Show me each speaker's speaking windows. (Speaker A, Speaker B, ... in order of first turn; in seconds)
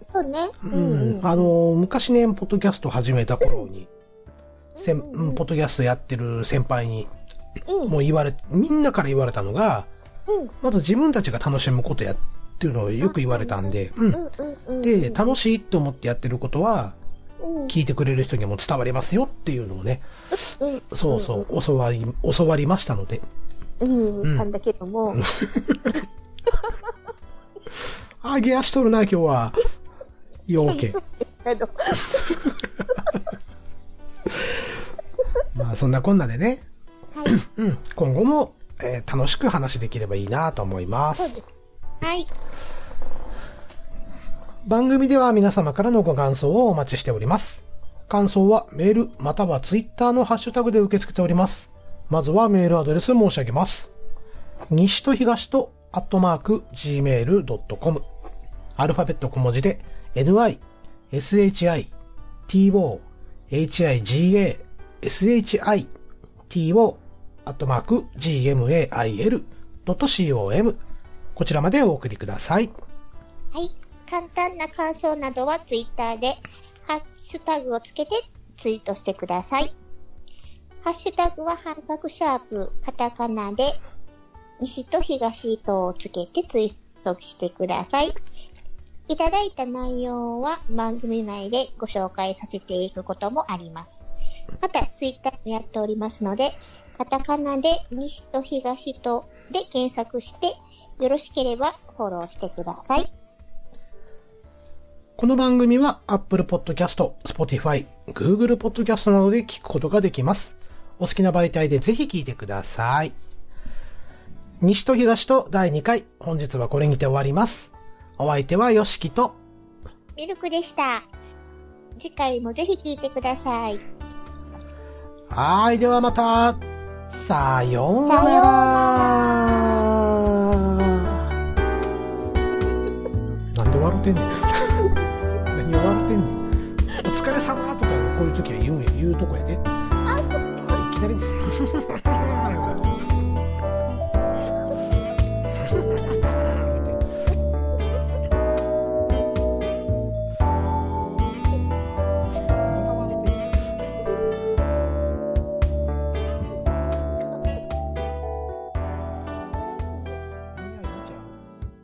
Speaker A: 0.1-1.5, 4.8-5.4, 7.7-7.9, 13.0-15.3, 17.4-17.7, 20.4-21.5, 23.8-25.2, 30.6-32.4, 33.0-33.2, 41.1-41.4, 42.0-42.3, 73.5-79.7, 80.8-83.8, 84.6-88.1, 89.1-94.0, 94.6-103.1, 120.2-121.1, 122.0-123.8, 128.1-129.6, 140.1-140.4, 159.5-160.2
Speaker B: 0.6-3.9, 4.8-7.1, 7.8-9.9, 10.6-14.2, 14.8-17.0, 17.7-20.1, 20.9-23.2, 25.1-26.0, 28.2-29.6, 30.5-30.9, 35.5-36.6, 37.2-41.4, 44.6-53.9, 54.7-58.0, 58.8-61.9, 62.5-65.9, 66.5-70.8, 71.3-72.7, 105.2-113.1, 114.6-119.4, 125.3-131.3, 133.5-134.9, 135.4-136.4, 137.0-139.6, 140.6-142.8, 145.6-147.0, 152.6-153.7, 160.5-161.4